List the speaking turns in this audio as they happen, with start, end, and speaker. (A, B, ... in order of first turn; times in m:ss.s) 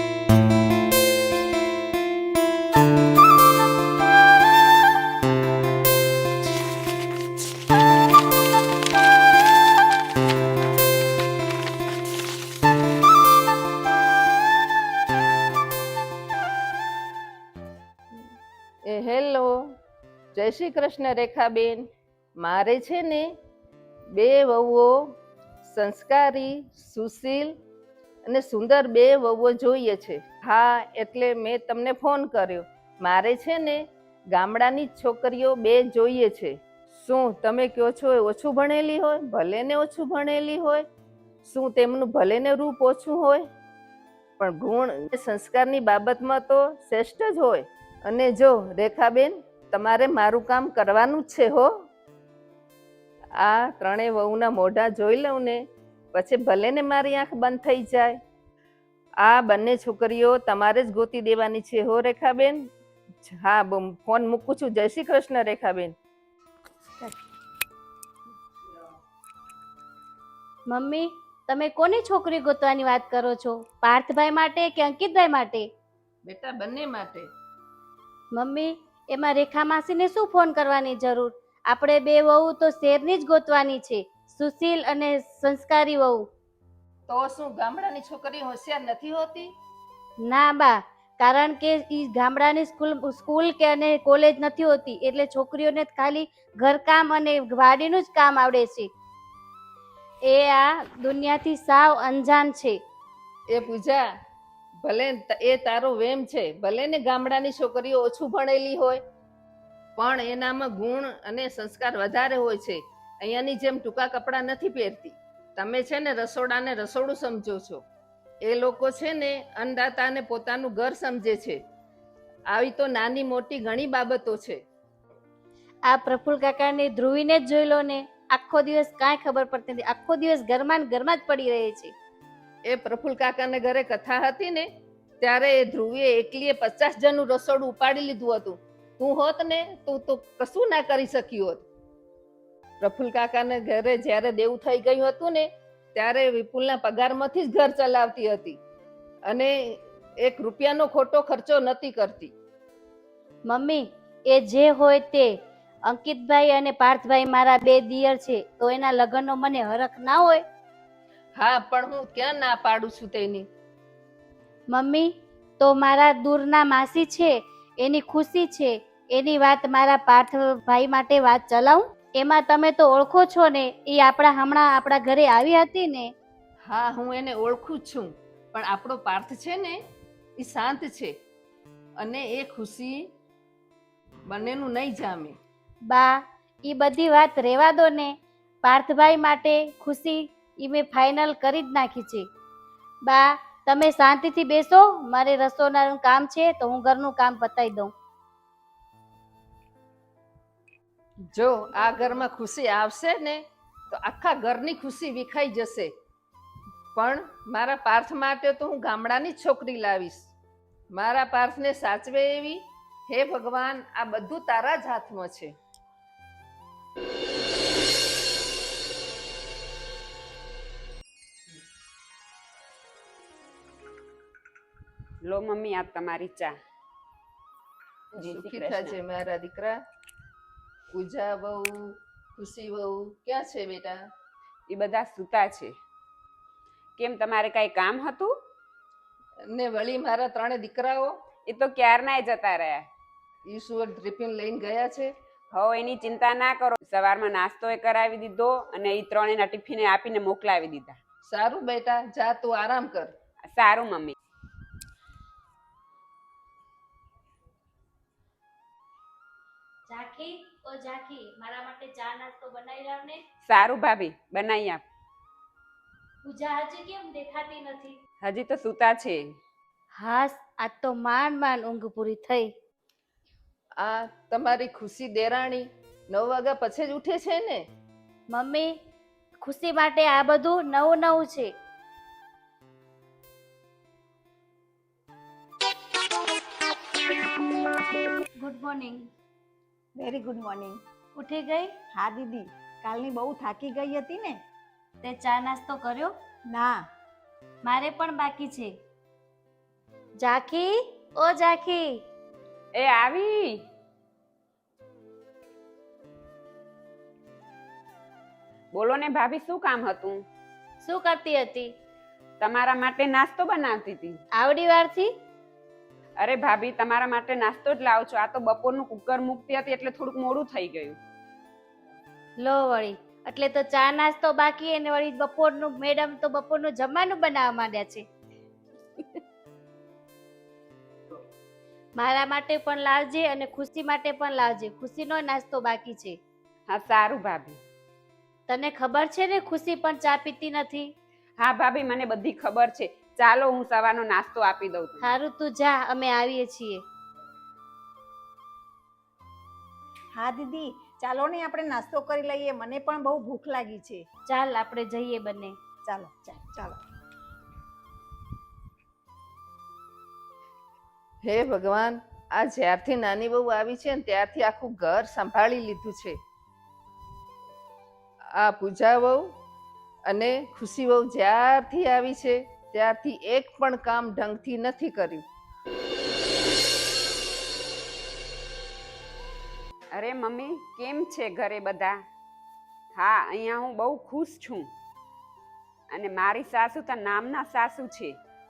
0:18.8-0:19.7 A
0:20.3-0:21.9 A
0:22.4-0:23.3 A
0:24.1-0:24.9 A
0:25.6-0:27.5 A
0:28.2-0:40.8 A
0:41.4-0:43.4 A
0:44.4-0:51.7 A
0:53.4-0:55.6 A
0:56.1-0:58.2 A
0:59.2-1:02.6 A
1:03.2-1:05.9 A
1:10.7-1:15.7 B
1:16.2-1:17.3 A
1:18.3-1:26.2 B
1:27.1-1:29.5 A
1:30.2-1:38.9 B
1:40.3-1:42.8 B
1:43.5-1:44.0 A
1:44.8-1:49.0 A
1:50.0-1:57.8 A
1:58.4-2:01.6 A
2:02.5-2:04.6 A
2:05.9-2:11.9 B
2:12.7-2:14.7 A
2:15.2-2:21.6 A
2:22.8-2:28.6 A
2:29.3-2:32.3 A
2:33.5-2:35.3 B
2:35.9-2:40.4 B
2:41.4-2:43.5 A
2:44.7-2:56.1 B
2:56.6-2:59.8 A
3:00.4-3:01.1 A
3:02.0-3:03.0 A
3:04.3-3:05.4 A
3:05.9-3:12.3 B
3:13.0-3:17.9 B
3:21.3-3:25.9 A
3:26.9-3:30.3 A
3:30.9-3:35.5 A
3:45.2-3:46.5 C
3:48.1-3:49.0 C
3:48.2-3:49.8 A
3:50.9-3:54.0 A
3:54.7-3:55.7 C
3:57.0-3:58.3 C
3:59.5-4:01.1 A
4:01.5-4:02.9 C
4:03.5-4:05.1 A
4:05.5-4:11.0 C
4:11.3-4:13.1 A
4:13.4-4:14.2 C
4:19.9-4:23.2 B
4:23.4-4:24.8 C
4:26.2-4:28.0 B
4:28.2-4:29.2 C
4:30.0-4:32.5 B
4:33.8-4:37.6 A
4:38.3-4:38.7 B
4:39.4-4:41.5 B
4:48.4-4:49.1 B
4:50.0-4:50.8 D
4:51.2-4:51.7 B
4:51.9-4:54.4 D
4:55.0-4:56.1 B
4:56.5-4:56.8 D
4:57.6-4:58.7 B
5:00.2-5:02.0 B
5:02.7-5:03.6 C
5:08.7-5:10.2 C
5:10.8-5:11.7 B
5:12.4-5:14.2 C
5:14.3-5:15.1 B
5:16.2-5:21.0 C
5:22.4-5:28.0 B
5:32.0-5:36.2 B
5:36.7-5:37.6 C
5:38.5-5:40.9 B
5:41.4-5:45.2 C
5:45.0-5:46.8 B
5:50.1-5:54.0 D
5:54.3-5:55.6 B
5:55.8-5:56.8 D
6:01.2-6:06.2 A
6:08.4-6:09.3 A
6:10.0-6:15.2 A
6:19.9-6:22.0 C
6:22.9-6:24.7 C
6:25.9-6:28.2 C